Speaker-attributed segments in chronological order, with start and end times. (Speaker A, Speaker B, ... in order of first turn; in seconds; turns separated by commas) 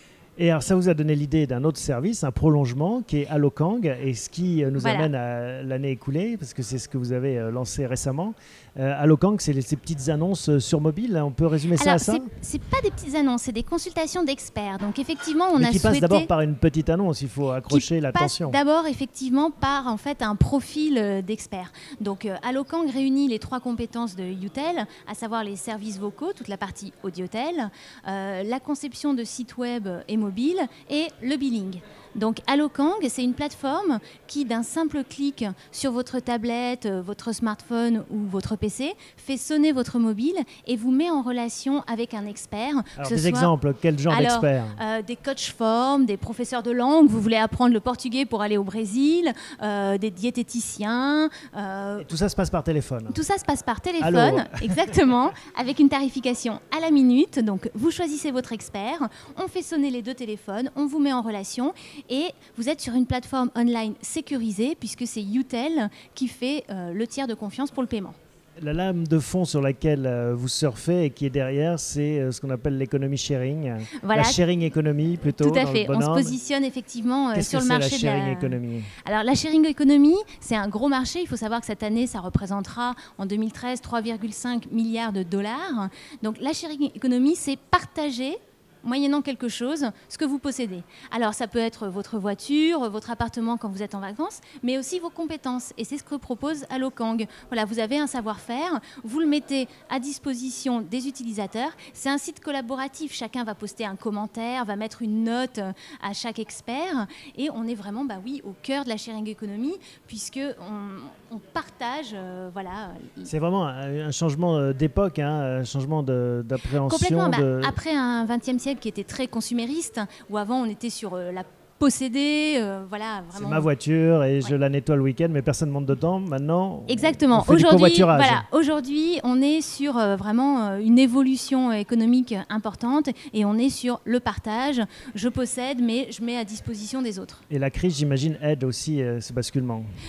Speaker A: 0.4-12.3, Speaker B: 4.8-5.1, Speaker B: 11.8-16.3, Speaker A: 15.6-18.6, Speaker B: 17.7-43.5, Speaker A: 43.0-44.8, Speaker B: 44.1-52.1, Speaker A: 52.0-53.2, Speaker B: 53.1-68.2, Speaker A: 54.0-54.8, Speaker A: 68.6-76.3, Speaker B: 74.0-74.4, Speaker B: 75.3-113.3, Speaker A: 77.3-78.9, Speaker A: 113.3-117.8, Speaker B: 116.8-123.7, Speaker A: 123.3-128.4, Speaker B: 126.9-137.4, Speaker A: 137.5-139.9